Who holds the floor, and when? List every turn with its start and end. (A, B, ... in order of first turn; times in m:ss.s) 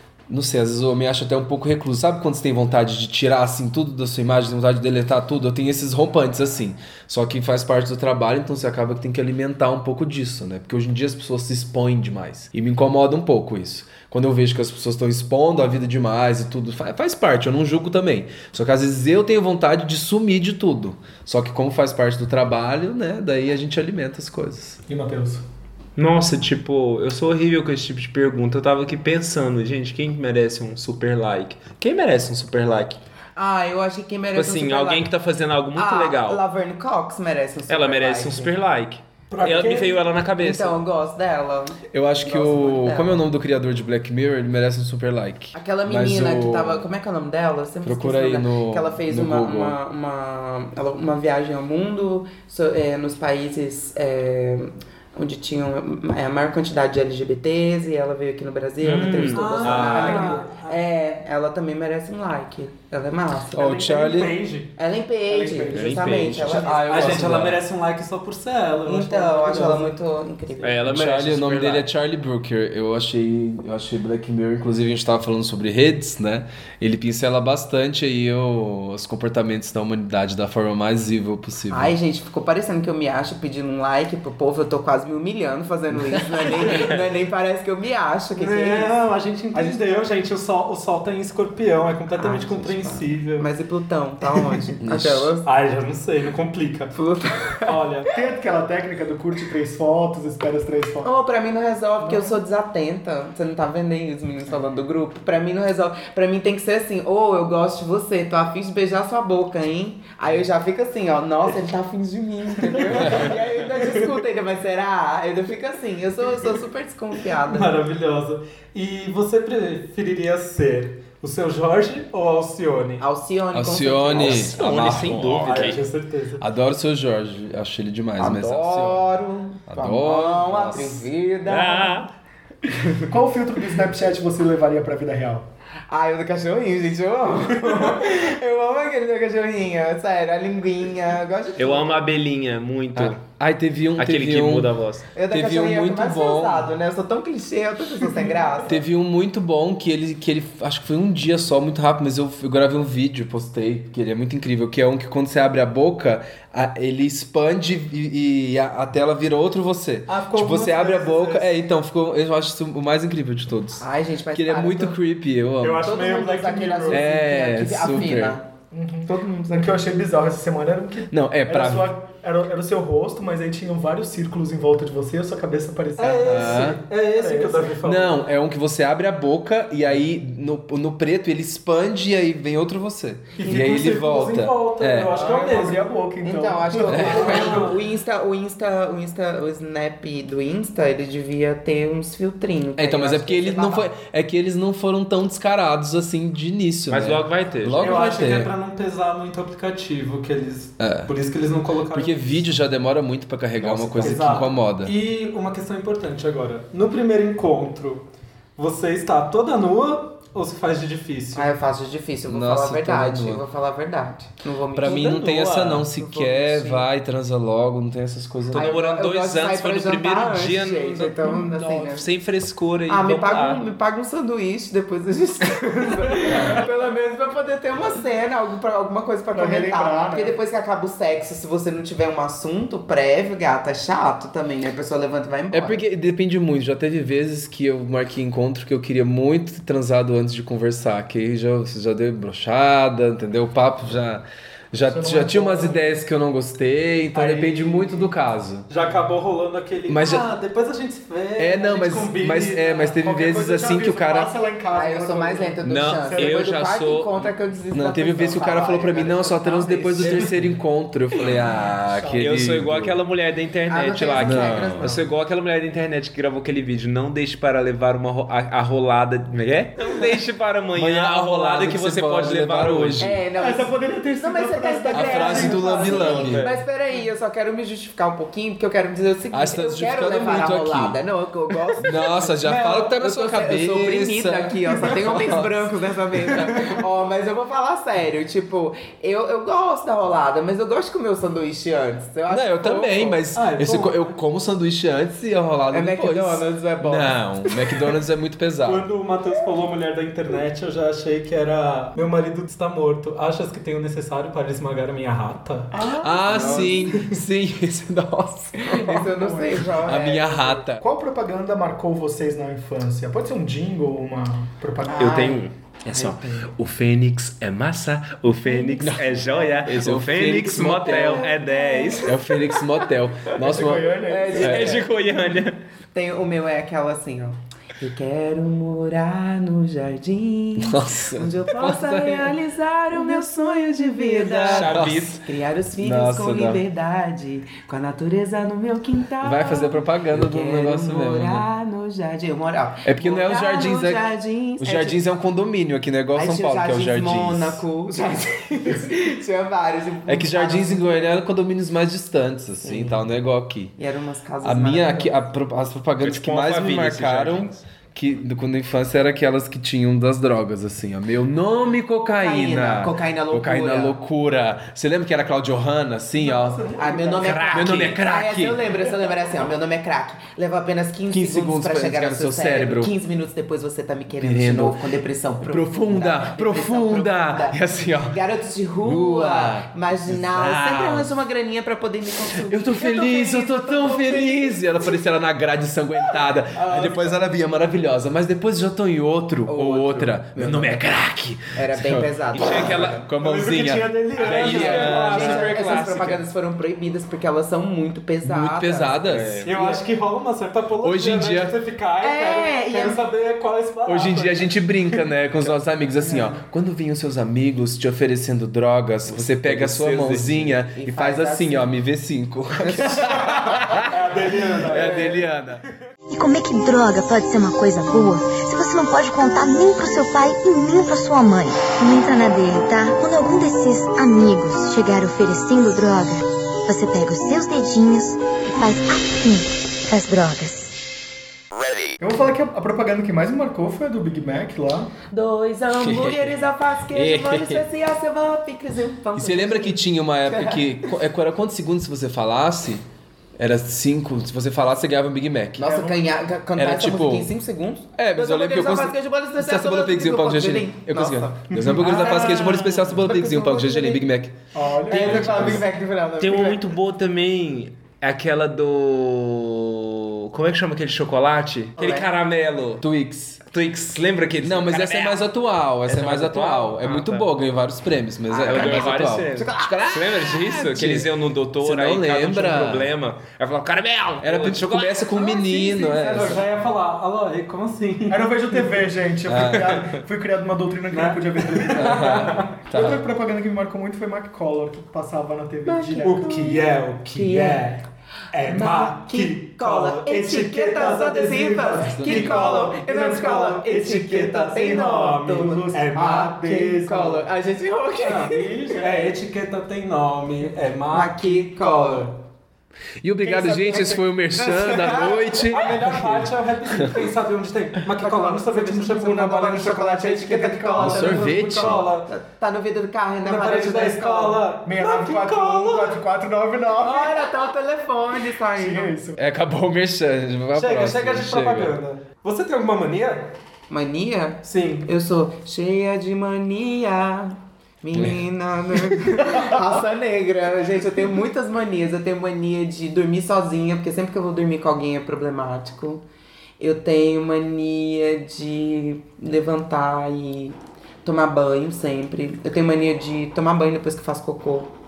0:00.3-0:24.8 A
0:24.9-0:25.4 B
0:26.0-0:33.0 C
0:33.4-0:35.1 D
0:34.3-0:36.4 C
0:35.7-0:38.5 D
0:37.7-0:40.8 C
0:39.3-0:40.0 E
0:40.4-0:43.2 D
0:41.9-0:46.8 A
0:45.5-1:04.1 D
0:47.8-0:49.8 A
0:58.8-1:00.4 C
0:59.3-1:00.8 E
1:03.5-1:04.4 A
1:03.8-1:04.7 E
1:04.8-1:07.2 D
1:05.3-1:06.6 B
1:05.7-1:06.6 C
1:06.5-1:07.6 A
1:06.7-1:10.0 E
1:08.8-1:10.8 D
1:10.6-1:11.9 C
1:10.9-1:21.9 A
1:21.7-1:29.0 D
1:28.4-1:33.5 E
1:29.5-1:30.0 B
1:32.2-1:35.5 D
1:34.8-1:35.3 A
1:35.4-1:37.0 E
1:36.9-1:37.8 D
1:37.6-1:38.1 E
1:38.1-1:41.1 B
1:41.0-1:57.7 D
1:42.0-1:42.4 B
1:57.4-2:03.0 E
2:03.0-2:04.6 D
2:03.5-2:05.7 A
2:04.1-2:05.8 C
2:05.3-2:06.4 E
2:06.4-2:09.1 A
2:08.2-2:12.0 D
2:09.7-2:11.0 A
2:11.4-2:12.1 C
2:12.7-2:13.0 D
2:13.1-2:15.5 B
2:15.9-2:22.1 D
2:21.6-2:23.2 C
2:22.9-2:24.7 A
2:24.0-2:25.1 C
2:25.1-2:28.8 D
2:25.3-2:26.7 A
2:28.6-2:46.0 A
2:40.1-2:41.5 E
2:43.8-2:45.0 D
2:45.6-2:47.1 E
2:45.8-2:48.5 D
2:46.9-2:48.4 A
2:48.7-2:57.8 B
2:49.0-2:49.7 D
2:51.1-2:51.9 A
2:56.0-2:58.2 E
2:56.2-2:56.8 A
2:57.8-3:05.2 A
3:03.4-3:05.9 E
3:05.1-3:07.7 B
3:05.1-3:13.9 D
3:06.9-3:07.3 A
3:06.9-3:07.8 E
3:12.8-3:18.5 A
3:16.9-3:17.9 C
3:17.8-3:22.4 E
3:20.8-3:21.1 A
3:21.9-3:24.9 A
3:23.6-3:24.4 C
3:24.0-3:31.6 E
3:31.3-3:36.9 D
3:32.3-3:33.4 A
3:34.7-3:38.7 A
3:34.8-3:35.8 C
3:38.5-3:43.6 C
3:38.5-3:42.1 D
3:42.9-3:55.8 D
3:49.3-3:50.4 B
3:55.5-4:08.7 A
4:04.8-4:06.0 B
4:07.1-4:08.1 E
4:08.7-4:13.0 E
4:09.9-4:10.3 A
4:11.4-4:14.3 A
4:13.0-4:16.4 B
4:14.7-4:20.3 D
4:15.6-4:17.3 C
4:17.7-4:23.0 A
4:21.7-4:22.3 B
4:22.2-4:33.0 C
4:23.7-4:25.0 D
4:24.2-4:25.0 A
4:30.7-4:33.2 A
4:33.0-4:53.2 D
4:33.3-4:36.2 B
4:34.9-4:36.5 A
4:36.1-4:36.6 C
4:39.3-4:41.0 A
4:41.8-4:45.7 A
4:52.3-4:58.9 A
4:53.3-4:54.1 E
4:55.7-4:57.5 D
4:58.6-5:05.9 E
5:05.7-5:07.0 D
5:05.9-5:09.0 A
5:08.6-5:10.6 D
5:08.8-5:09.8 B
5:09.7-5:10.8 A
5:10.8-5:15.2 B
5:14.8-5:16.5 D
5:14.9-5:22.2 C
5:18.4-5:19.4 D
5:18.8-5:21.3 A
5:20.6-5:22.5 D
5:22.0-5:24.8 A
5:23.3-5:24.7 B
5:24.0-5:24.9 D
5:24.3-5:25.6 C
5:25.9-5:45.0 D
5:30.6-5:32.4 A
5:32.9-5:35.2 A
5:34.4-5:35.2 C
5:35.8-5:36.6 A
5:39.2-5:41.5 A
5:42.8-5:44.1 A
5:44.6-5:47.6 A
5:46.1-5:51.1 D
5:50.1-5:53.7 A
5:52.6-5:53.1 D
5:53.8-5:55.2 D
5:54.4-6:06.6 A
5:56.0-5:57.6 C
6:02.2-6:04.0 D
6:06.2-6:07.3 B
6:06.7-6:25.0 D
6:07.2-6:08.0 C
6:07.5-6:08.6 A
6:11.1-6:12.9 A
6:14.2-6:14.8 A
6:15.4-6:18.2 A
6:18.8-6:21.1 A
6:22.4-6:35.9 A
6:26.5-6:27.2 D
6:29.5-6:30.8 D
6:31.5-6:32.8 D
6:32.3-6:33.1 C
6:33.1-6:35.7 E
6:34.2-6:36.2 C
6:34.4-6:39.8 D
6:38.2-6:39.4 A
6:39.0-6:39.5 C
6:39.4-6:44.6 E
6:40.8-6:41.5 A
6:42.0-6:43.0 D
6:43.8-6:54.0 A
6:46.0-6:46.3 D
6:49.1-6:50.6 C
6:50.7-6:51.7 D
6:52.6-6:53.3 D
6:53.0-6:55.7 E
6:54.6-6:55.6 A
6:54.7-6:55.2 D
6:56.1-7:10.7 F
7:12.0-7:14.9 B
7:15.1-7:20.9 D
7:15.7-7:16.4 A
7:16.9-7:17.6 A
7:19.1-7:22.8 A
7:23.4-7:25.7 A
7:25.6-7:31.4 D
7:25.6-7:26.1 B
7:26.6-7:27.3 A
7:28.0-7:35.6 A
7:31.6-7:33.4 B
7:31.8-7:32.6 C
7:33.0-7:34.0 D
7:34.5-7:35.6 B
7:34.9-7:36.6 D
7:36.2-7:42.8 C
7:41.8-7:42.1 D
7:42.8-7:43.4 A
7:43.5-7:45.2 C
7:44.4-7:52.9 A
7:45.8-7:47.3 C
7:48.3-7:50.1 D
7:48.4-7:55.1 C
7:54.2-7:56.5 A
7:55.1-7:56.4 D
7:55.9-7:58.8 E
7:58.1-8:06.3 B
7:59.2-7:59.8 A
7:59.5-8:00.0 C
8:00.9-8:02.6 E
8:01.7-8:03.0 A
8:05.6-8:07.7 D
8:06.0-8:17.2 E
8:08.4-8:19.0 D
8:12.0-8:12.4 A
8:14.6-8:16.5 B
8:18.0-8:22.2 E
8:20.9-8:22.1 D
8:23.0-8:27.1 A
8:23.2-8:25.5 D
8:25.5-8:32.1 E
8:27.9-8:34.5 D
8:30.5-8:31.1 B
8:30.8-8:32.0 A
8:33.2-8:36.0 E
8:34.6-8:37.2 B
8:36.8-8:38.9 D
8:38.5-8:39.2 B
8:39.2-8:41.8 A
8:40.5-8:43.4 E
8:43.7-8:56.0 D
8:44.4-8:44.9 E
8:47.9-8:49.0 A
8:56.6-9:04.7 D